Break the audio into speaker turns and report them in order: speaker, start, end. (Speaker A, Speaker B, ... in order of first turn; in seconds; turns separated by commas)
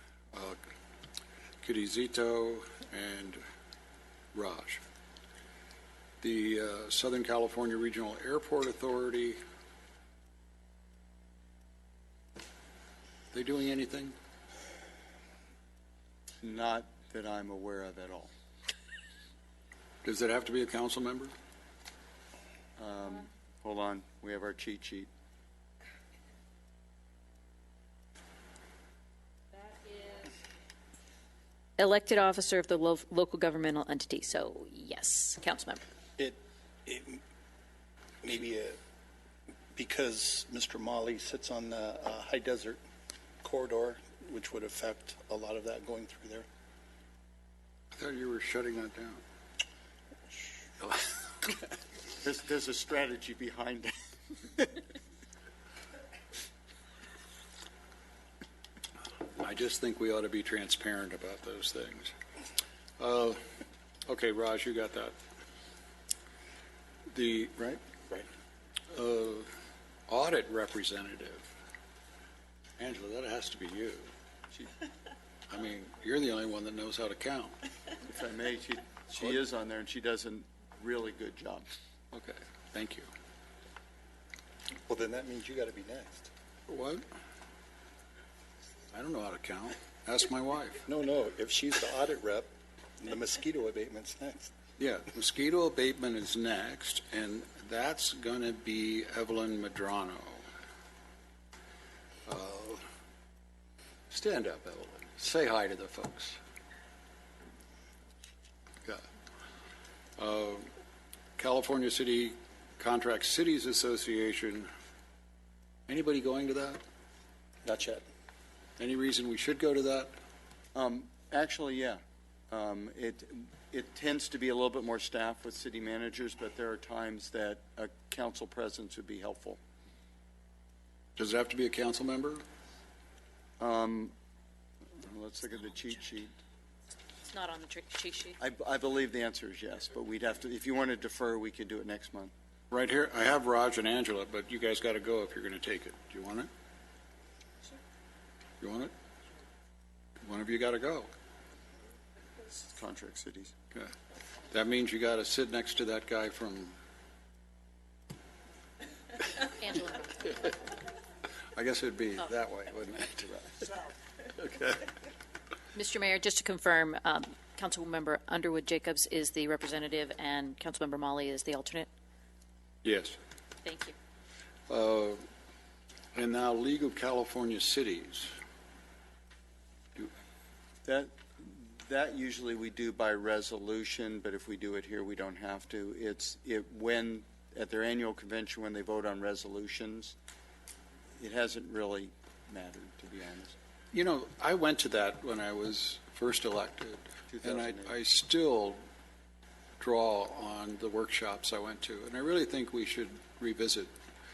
Speaker A: 0.3-0.6, Speaker A: 1.6-3.4, Speaker A: 4.3-4.8, Speaker A: 6.2-9.4, Speaker A: 13.3-14.2, Speaker B: 16.4-18.3, Speaker A: 20.0-21.3, Speaker B: 22.8-25.1, Speaker C: 31.8-35.8, Speaker D: 36.2-37.2, Speaker D: 38.2-38.8, Speaker D: 39.7-42.8, Speaker D: 43.4-46.5, Speaker A: 47.9-49.2, Speaker A: 50.8-51.5, Speaker B: 52.2-53.9, Speaker A: 59.3-62.1, Speaker A: 63.0-63.5, Speaker A: 64.1-65.2, Speaker A: 67.1-68.2, Speaker A: 68.9-69.5, Speaker A: 70.1-71.5, Speaker A: 72.8-74.1, Speaker A: 75.5-77.5, Speaker B: 78.0-81.7, Speaker A: 82.1-83.1, Speaker D: 84.8-86.3, Speaker A: 86.7-87.0, Speaker A: 88.9-90.8, Speaker D: 90.8-92.5, Speaker D: 93.0-94.5, Speaker A: 94.8-100.5, Speaker A: 102.2-102.8, Speaker A: 104.1-106.4, Speaker A: 110.2-110.7, Speaker A: 111.4-114.7, Speaker A: 115.9-116.8, Speaker D: 117.6-118.0, Speaker A: 118.8-120.1, Speaker B: 120.7-122.0, Speaker B: 122.5-129.6, Speaker A: 131.2-132.4, Speaker B: 133.6-134.1, Speaker B: 135.0-136.3, Speaker C: 137.3-138.4, Speaker B: 138.4-142.3, Speaker A: 142.7-146.5, Speaker A: 148.6-148.9, Speaker A: 150.2-151.1, Speaker B: 152.5-153.5, Speaker A: 154.5-156.8, Speaker C: 159.4-160.2, Speaker A: 161.5-163.8, Speaker A: 164.4-164.8, Speaker C: 165.7-171.9, Speaker A: 172.8-173.2, Speaker C: 173.6-173.9, Speaker A: 174.7-175.2, Speaker A: 176.1-178.3, Speaker B: 180.8-190.2, Speaker B: 191.2-193.6, Speaker A: 193.9-198.8, Speaker B: 197.3-198.0, Speaker A: 199.8-203.9